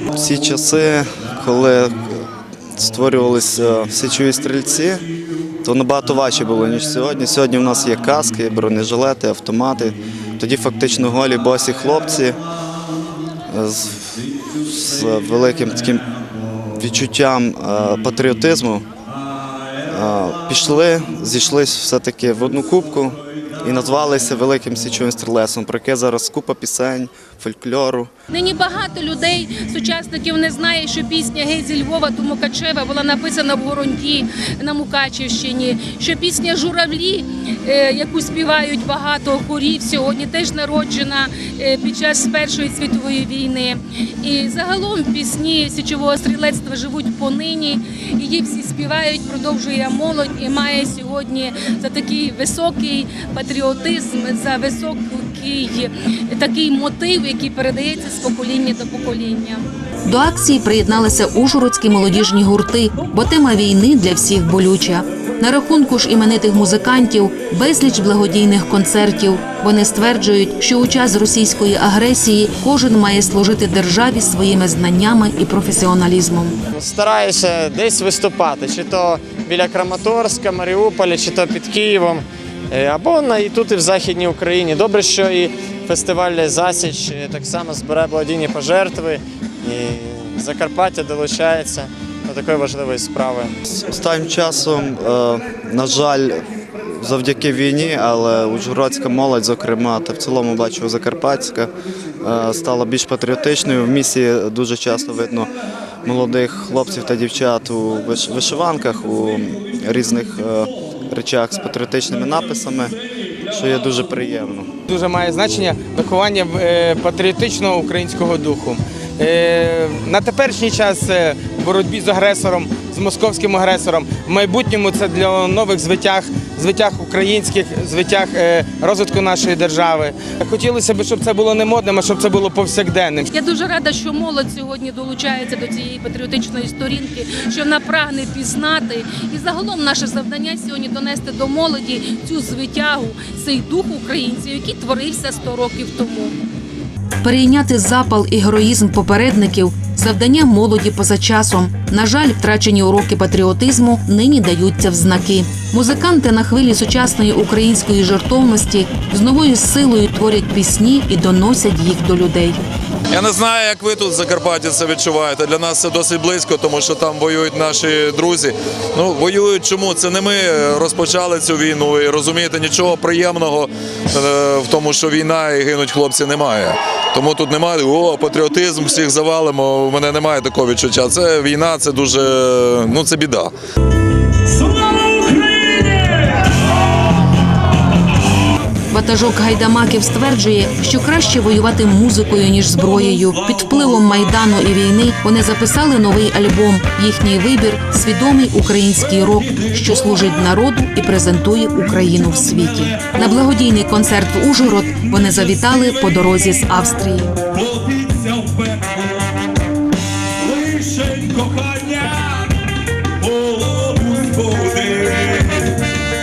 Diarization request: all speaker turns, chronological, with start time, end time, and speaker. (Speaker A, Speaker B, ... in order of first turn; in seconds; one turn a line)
Speaker A: 0.1-2.2
Speaker A: 2.8-5.0
Speaker A: 5.6-12.4
Speaker A: 13.5-16.1
Speaker A: 16.8-18.9
Speaker A: 19.9-28.1
Speaker B: 28.3-59.6
Speaker C: 60.1-76.6
Speaker D: 76.7-93.5
Speaker A: 93.7-105.5
Speaker A: 106.0-114.7
Speaker E: 114.9-133.3
Speaker B: 133.3-146.3
Speaker C: 147.2-162.6
Speaker F: 163.1-183.5
Speaker F: 185.2-185.7
Speaker C: 188.9-207.4
Speaker F: 207.6-209.0
Speaker F: 210.4-212.5
Speaker F: 213.2-215.6